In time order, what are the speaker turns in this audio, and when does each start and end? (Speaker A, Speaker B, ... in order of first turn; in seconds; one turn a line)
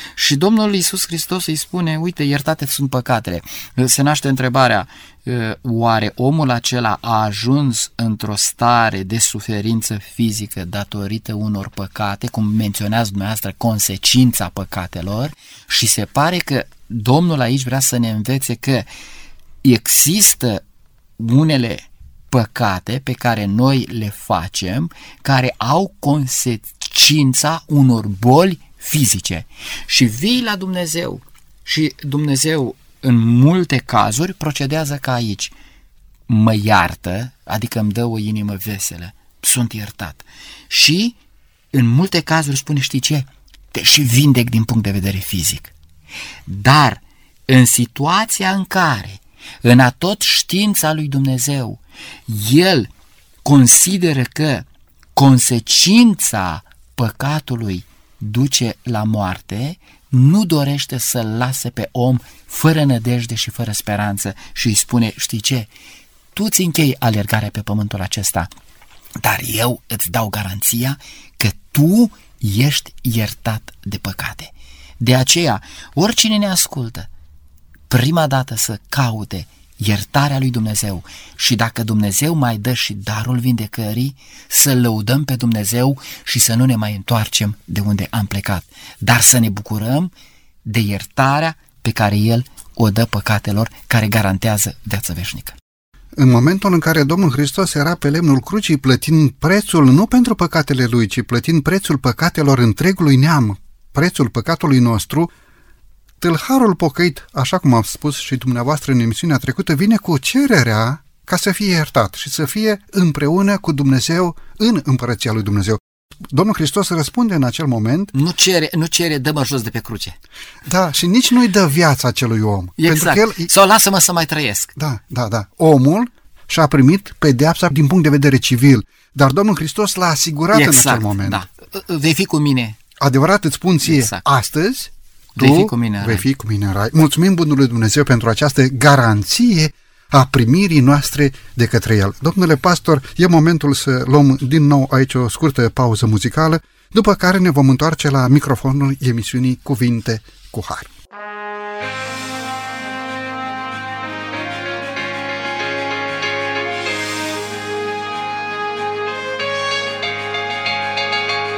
Speaker A: 0.2-18.9
Speaker A: 19.6-20.6
Speaker A: 21.2-35.5
Speaker A: 36.3-41.2
Speaker A: 41.7-45.7
Speaker A: 46.5-52.9
Speaker A: 53.4-65.7
Speaker A: 66.3-68.5
Speaker A: 69.2-77.1
Speaker A: 77.9-90.1
Speaker A: 90.7-95.6
Speaker B: 96.2-105.3
Speaker B: 106.2-118.1
Speaker A: 118.1-120.2
Speaker B: 120.7-123.5
Speaker A: 122.8-124.7
Speaker B: 124.8-131.4
Speaker A: 130.5-132.8
Speaker B: 133.0-150.9
Speaker A: 133.8-134.2
Speaker A: 135.4-136.2